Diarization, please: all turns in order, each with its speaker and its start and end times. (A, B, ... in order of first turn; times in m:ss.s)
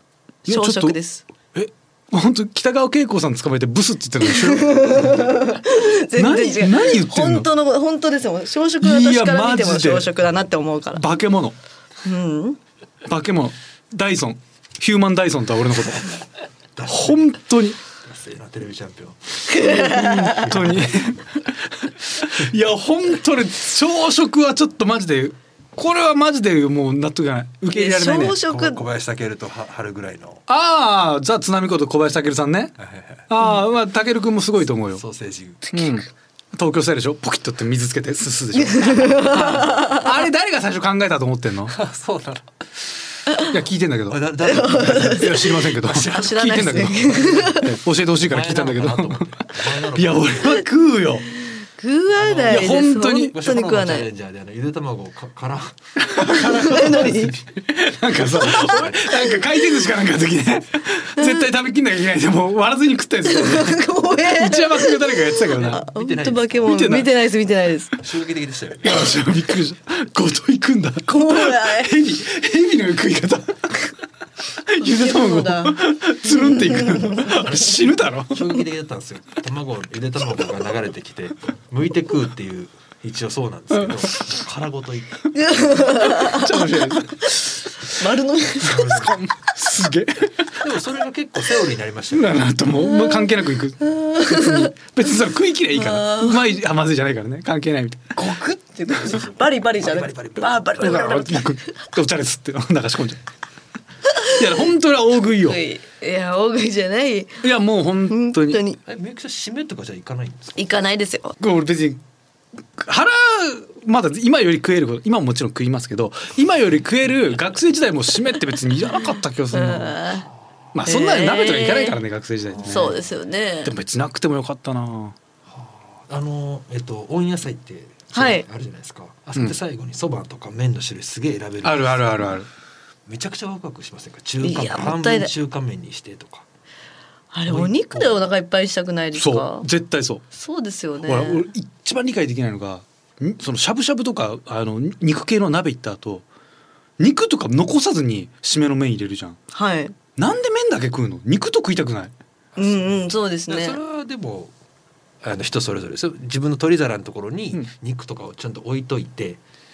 0:00.4-0:01.2 A
0:00.4-0:01.0 B
0:01.5-0:05.4 B
0:04.2-0:11.0 A
0:06.2-0:07.5 B
0:08.8-0:10.1 B
0:10.9-0:11.6 B
0:12.0-0:12.6 A
0:13.0-0:16.2 B
0:16.7-0:17.3 C
0:16.9-0:17.8 B
0:18.0-0:21.1 C
0:19.5-0:20.5 A
0:19.7-0:28.4 B
0:27.7-0:28.8 A
0:28.5-0:30.4 C
0:30.5-0:32.8 B
0:32.8-0:33.3 C
0:33.3-0:35.0 B
0:34.9-0:35.7 C
0:35.7-0:41.8 B
0:38.5-0:40.0 A
0:41.7-0:42.6 C
0:43.5-0:51.2 B
0:44.1-0:46.6 C
0:44.5-0:47.7 A
0:48.2-0:50.6 C
0:51.3-0:54.1 A
0:52.1-0:57.4 C
0:52.5-0:53.3 B
0:56.0-1:05.8 B
0:56.1-0:57.3 A
0:58.3-0:59.2 C
0:58.4-0:58.8 A
1:01.2-1:01.5 A
1:03.2-1:08.0 A
1:05.6-1:06.8 C
1:06.6-1:07.1 B
1:08.0-1:08.9 C
1:08.8-1:13.9 B
1:11.1-1:12.0 A
1:14.6-1:18.6 B
1:14.8-1:17.4 A
1:17.3-1:25.4 C
1:23.7-1:24.1 B
1:25.3-1:29.0 A
1:26.0-1:27.3 B
1:28.6-1:30.7 B
1:28.7-1:29.1 C
1:30.6-1:32.4 C
1:32.1-1:38.2 B
1:32.8-1:34.7 A
1:35.7-1:36.4 A
1:38.2-1:41.5 A
1:39.0-1:41.1 C
1:40.8-1:43.2 B
1:44.3-1:45.6 B
1:45.4-1:47.4 A
1:47.4-1:48.6 B
1:48.1-1:48.8 A
1:48.8-1:50.7 C
1:50.6-1:51.4 A
1:51.4-1:52.0 B
1:52.8-2:00.0 B
1:59.5-2:00.3 A
2:00.7-2:03.0 B
2:00.8-2:02.0 A
2:02.5-2:03.0 C
2:02.6-2:03.7 A
2:03.6-2:05.2 B
2:05.5-2:12.4 C
2:08.1-2:08.4 A
2:11.6-2:12.5 B
2:13.1-2:16.4 C
2:14.4-2:15.3 A
2:17.3-2:19.6 A
2:17.5-2:18.2 C
2:19.1-2:20.2 B
2:20.3-2:21.5 A
2:21.0-2:26.2 B
2:27.0-2:29.4 B
2:29.5-2:29.9 A
2:30.2-2:32.1 B
2:32.5-2:34.5 C
2:32.6-2:33.8 A
2:35.2-2:39.4 C